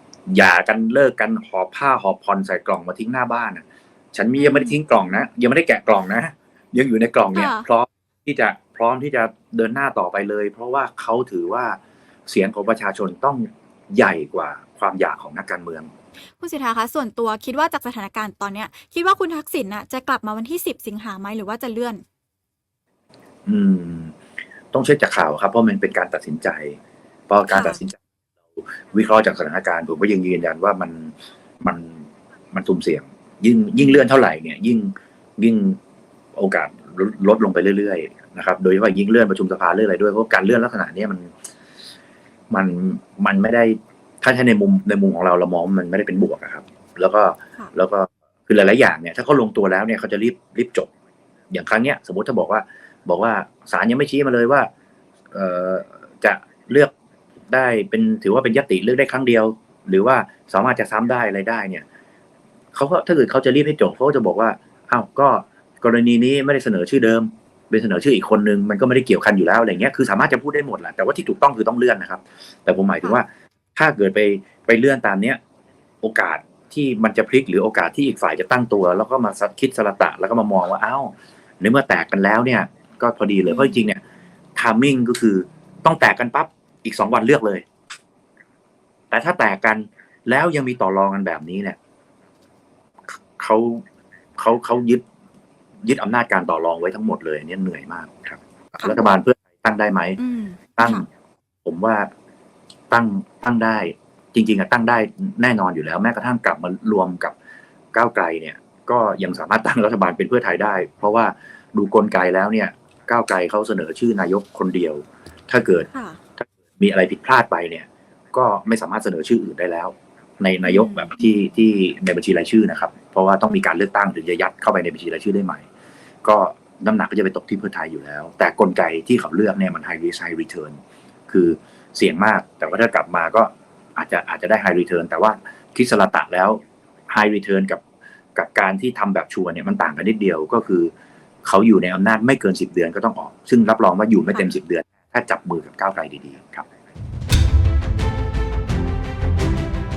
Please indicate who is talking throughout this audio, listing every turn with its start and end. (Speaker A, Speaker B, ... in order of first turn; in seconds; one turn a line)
Speaker A: 0.3-15.9
Speaker B: 4.4-4.8
Speaker B: 7.3-7.7
Speaker B: 16.4-22.0
Speaker A: 23.4-24.1
Speaker A: 24.7-28.0
Speaker B: 27.5-27.8
Speaker A: 28.6-35.8
Speaker A: 36.4-41.3
Speaker A: 42.5-50.9
Speaker A: 51.5-54.7
Speaker A: 55.3-56.9
Speaker A: 57.5-61.8
Speaker A: 62.7-75.4
Speaker A: 76.0-84.0
Speaker B: 83.5-83.8
Speaker A: 84.5-87.6
Speaker A: 89.1-91.8
Speaker A: 93.1-93.8
Speaker A: 94.4-95.0
Speaker A: 95.8-100.2
Speaker B: 100.2-101.0
Speaker A: 100.8-101.0
Speaker A: 101.6-102.1
Speaker A: 102.9-107.3
Speaker A: 107.9-125.7
Speaker B: 115.9-116.2
Speaker B: 120.6-121.1
Speaker A: 126.2-137.8
Speaker A: 138.3-140.9
Speaker A: 141.4-146.7